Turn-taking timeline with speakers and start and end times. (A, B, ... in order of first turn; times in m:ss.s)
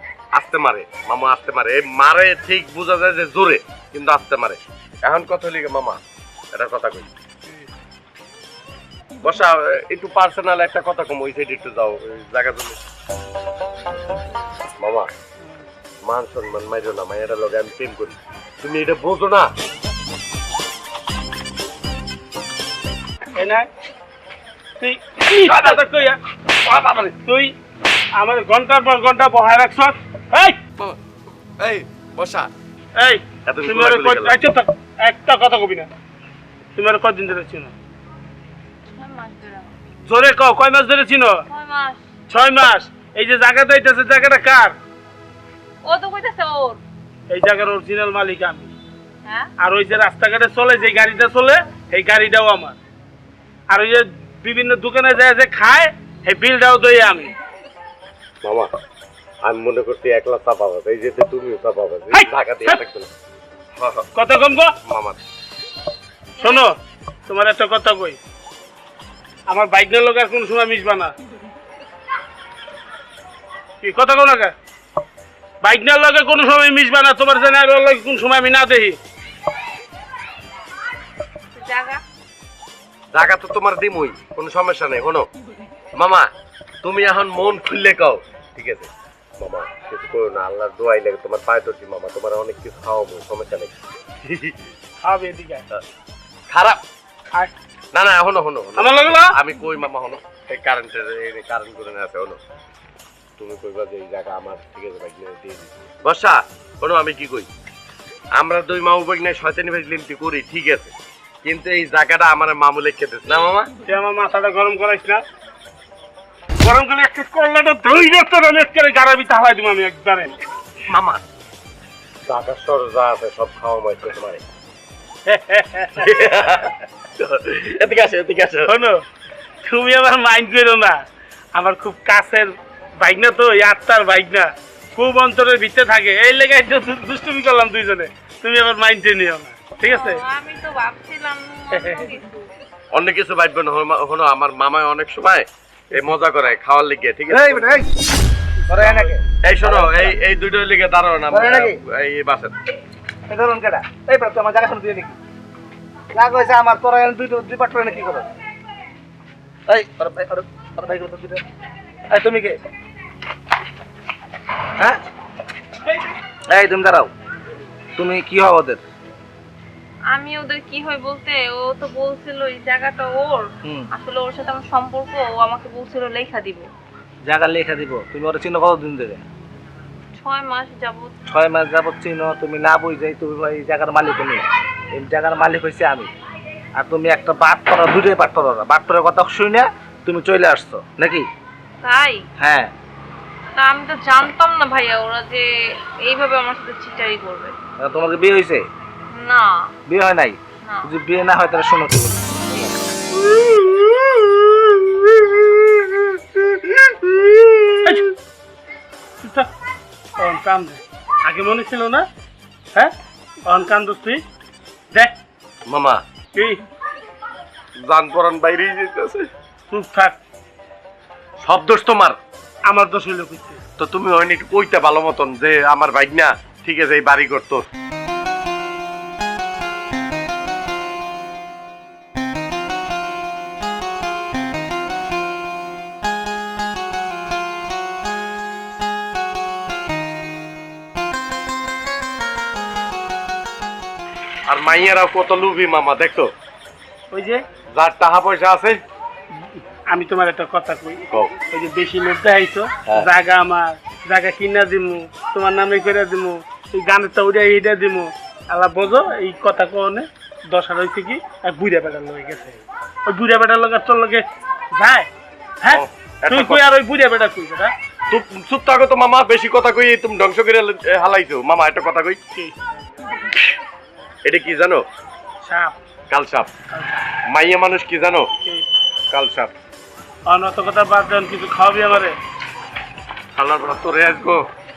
0:00.3-0:06.0 A
0:06.5-0:07.1 A
0:09.2-0:12.8 A
0:14.8-0:15.1 A
0:16.0-0:19.5 A
0:23.3-0:23.7 B
0:24.8-0:26.2 B
0:25.4-0:25.8 A
0:26.6-0:27.1 A
0:27.2-0:27.5 B
0:28.2-0:30.6 B
0:31.6-0:32.5 A
0:33.0-0:35.9 B
0:33.4-0:34.4 A
0:36.7-0:37.7 B
0:38.9-0:39.7 C
0:40.0-0:41.4 B
0:41.5-0:42.0 C
0:42.3-0:44.7 B
0:45.8-0:46.8 C
0:47.3-0:48.7 B
0:49.2-0:49.5 C
0:49.6-0:52.8 B
0:53.7-0:57.3 B
0:58.4-0:58.7 A
0:59.4-1:03.1 A
1:02.1-1:02.8 B
1:03.8-1:04.1 A
1:04.1-1:04.7 B
1:04.8-1:05.2 A
1:06.4-1:06.8 B
1:06.4-1:06.6 C
1:07.3-1:08.2 B
1:09.5-1:11.1 B
1:13.8-1:14.5 B
1:15.6-1:19.0 B
1:21.5-1:22.0 C
1:23.1-1:25.3 A
1:26.0-1:26.3 A
1:26.8-1:28.9 A
1:29.4-1:33.7 A
1:34.2-1:34.6 A
1:35.0-1:35.6 B
1:36.5-1:36.8 A
1:37.9-1:42.4 A
1:38.8-1:39.3 B
1:43.4-1:47.5 A
1:48.4-1:50.9 A
1:51.4-1:53.7 A
1:53.8-1:55.2 B
1:56.6-2:00.3 B
2:00.9-2:01.2 A
2:02.3-2:04.4 A
2:05.3-2:06.0 B
2:06.0-2:08.7 A
2:08.6-2:09.0 B
2:09.6-2:11.0 B
2:11.5-2:20.2 B
2:19.9-2:22.4 C
2:22.9-2:27.7 A
2:27.3-2:27.9 D
2:28.7-2:30.1 D
2:28.7-2:29.2 B
2:29.4-2:32.5 A
2:31.3-2:31.8 D
2:33.3-2:35.2 D
2:36.1-2:38.2 D
2:39.7-2:41.4 D
2:42.1-2:42.6 D
2:46.5-2:47.1 D
2:48.0-2:48.8 D
2:50.1-2:56.7 C
2:53.6-2:53.9 D
2:57.2-2:59.2 D
3:00.2-3:01.1 C
3:01.3-3:06.1 D
3:06.8-3:11.3 D
3:11.8-3:12.2 C
3:12.4-3:12.7 D
3:13.6-3:15.4 C
3:16.0-3:17.5 C
3:17.8-3:18.6 D
3:19.1-3:19.7 C
3:19.9-3:22.5 D
3:20.6-3:20.9 C
3:23.3-3:23.7 A
3:26.8-3:27.6 A
3:29.2-3:29.5 B
3:30.2-3:32.0 B
3:33.4-3:34.2 B
3:35.7-3:36.0 A
3:36.3-3:36.6 B
3:37.8-3:39.3 A
3:39.7-3:40.2 B
3:41.4-3:42.2 A
3:42.7-3:43.6 B
3:43.8-3:47.6 A
4:04.5-4:06.3 A
4:07.1-4:07.4 B
4:07.7-4:08.8 A
4:09.9-4:25.1 B
4:25.6-4:27.7 B
4:25.7-4:26.6 A
4:28.1-4:32.2 A
4:34.2-4:34.8 A
4:35.4-4:35.8 B
4:36.1-4:36.5 A
4:36.7-4:37.0 B
4:37.3-4:38.3 A
4:39.1-4:39.5 A
4:40.3-4:42.2 B
4:43.4-4:44.4 A